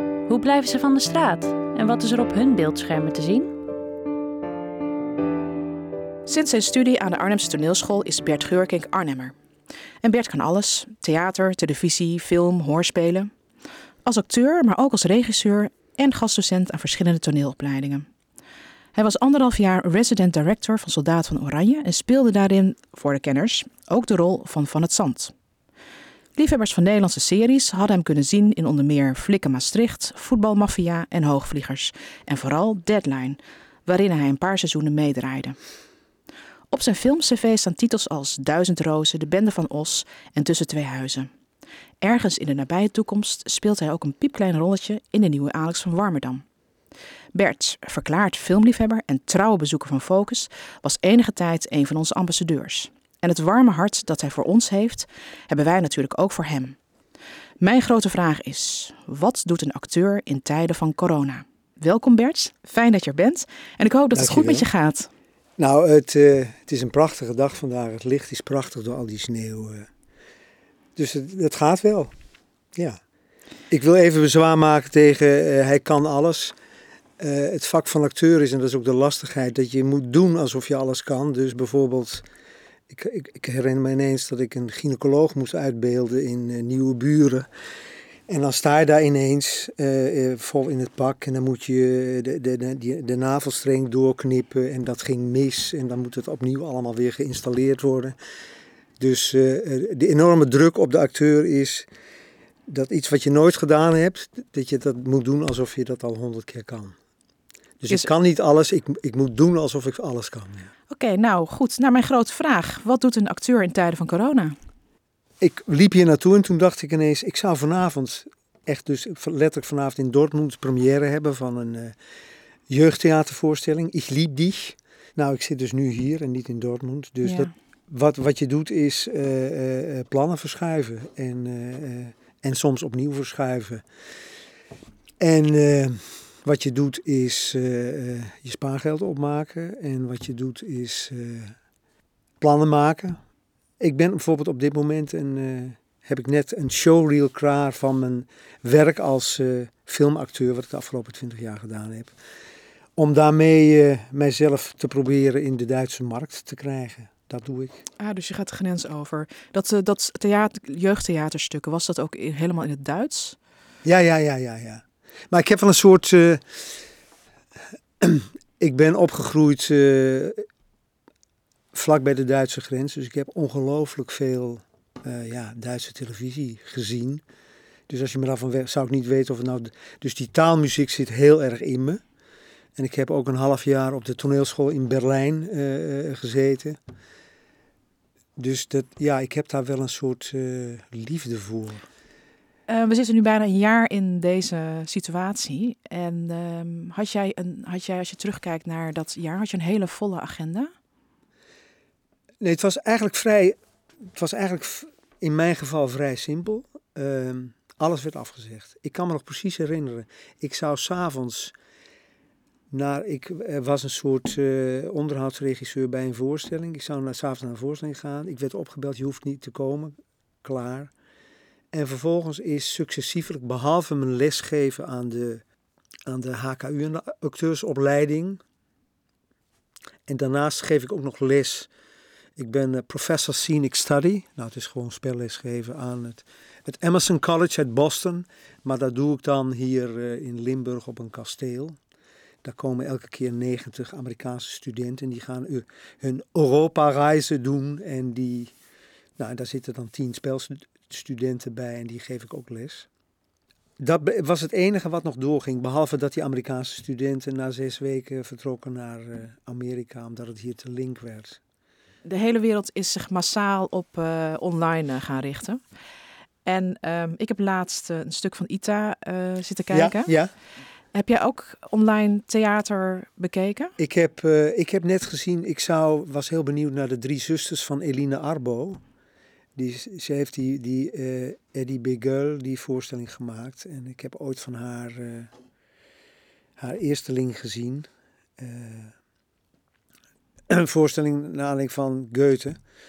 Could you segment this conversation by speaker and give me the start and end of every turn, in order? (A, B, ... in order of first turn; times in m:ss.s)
0:00.3-0:03.5 A
0:06.2-0:09.3 B
0:10.0-0:13.3 B
0:14.0-0:18.1 B
0:18.9-0:25.3 B
0:26.3-0:35.6 B
0:36.7-0:41.3 B
0:42.0-0:46.4 B
0:47.3-0:56.8 B
0:57.6-1:05.1 B
1:04.1-1:04.6 C
1:05.6-1:09.9 C
1:11.0-1:12.1 C
1:12.7-1:13.0 C
1:13.7-1:16.5 C
1:17.2-1:22.2 C
1:22.9-1:27.5 C
1:28.3-1:38.2 C
1:39.0-1:41.9 C
1:42.7-1:46.9 C
1:47.8-1:50.7 C
1:50.9-1:54.6 B
1:55.4-2:01.9 C
2:02.7-2:13.8 C
2:15.2-2:21.6 C
2:22.4-2:23.2 C
2:23.8-2:32.1 C
2:33.0-2:37.8 C
2:38.0-2:43.4 B
2:43.8-2:46.7 C
2:48.0-2:50.4 C
2:51.7-2:57.2 C
2:57.9-3:02.0 C
3:02.8-3:06.8 C
3:08.4-3:11.8 C
3:12.7-3:20.7 B
3:22.4-3:23.6 C
3:24.1-3:31.5 C
3:32.7-3:40.9 C
3:41.7-3:45.4 C
3:46.1-3:48.4 C
3:50.1-3:51.7 C
3:52.4-4:01.8 C
4:02.4-4:08.5 C
4:09.2-4:12.9 C
4:13.8-4:21.4 C
4:22.0-4:25.6 B
4:26.4-4:30.2 B
4:29.7-4:30.3 C
4:30.9-4:33.7 B
4:33.8-4:38.8 C
4:39.6-4:45.3 C
4:46.6-4:47.9 C
4:48.4-4:48.9 C
4:50.5-4:52.6 C